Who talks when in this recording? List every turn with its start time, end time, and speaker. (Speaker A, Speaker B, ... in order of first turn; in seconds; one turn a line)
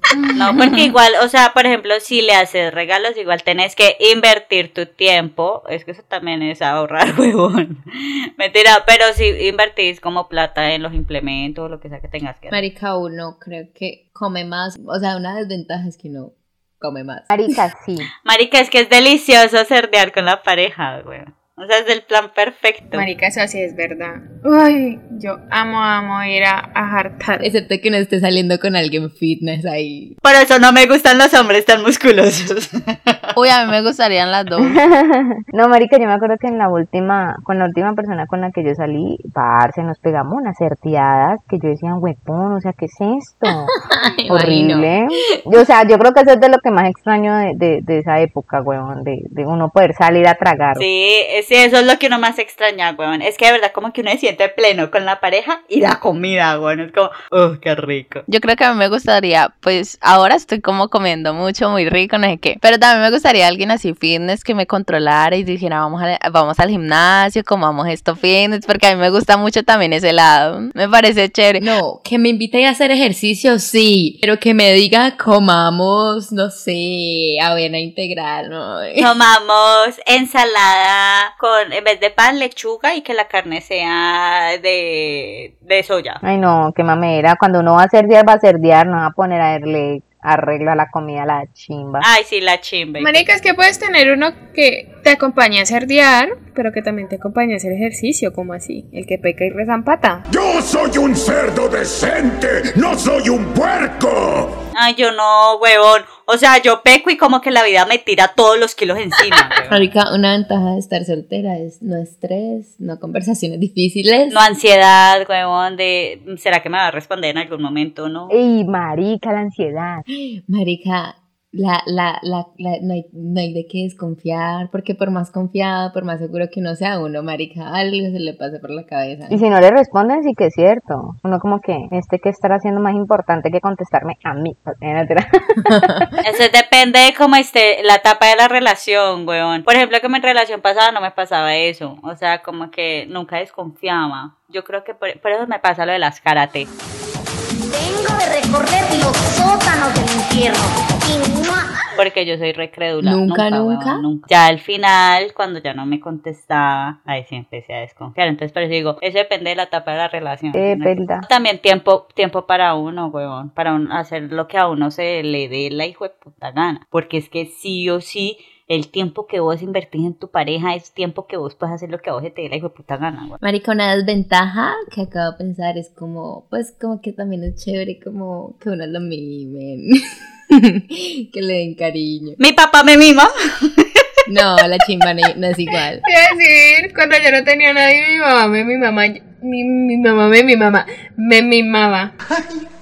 Speaker A: 0.1-0.9
Speaker B: 0.3-12.6
Speaker C: 12.5-17.6
Speaker D: 17.3-18.1
Speaker B: 18.2-23.1
Speaker E: 22.9-27.4
Speaker C: 27.4-30.2
Speaker B: 30.2-33.3
Speaker A: 33.3-34.8
Speaker D: 34.7-43.7
Speaker C: 43.7-45.0
Speaker D: 44.3-50.8
Speaker B: 50.7-58.2
Speaker A: 58.3-71.7
Speaker C: 71.6-79.1
Speaker B: 79.0-86.2
Speaker D: 86.2-92.0
Speaker B: 92.0-93.2
Speaker E: 93.0-100.2
Speaker F: 100.3-104.5
Speaker B: 104.7-109.8
Speaker C: 109.7-114.4
Speaker B: 114.3-118.3
Speaker D: 118.3-120.0
Speaker C: 120.1-129.4
Speaker D: 129.3-135.8
Speaker C: 135.6-136.1
Speaker B: 136.2-146.7
Speaker G: 147.7-151.7
Speaker B: 151.9-173.4
Speaker C: 153.0-154.0
Speaker D: 160.5-161.2
Speaker C: 173.4-182.4
Speaker B: 182.4-184.1
Speaker C: 184.2-186.0
Speaker E: 186.0-192.1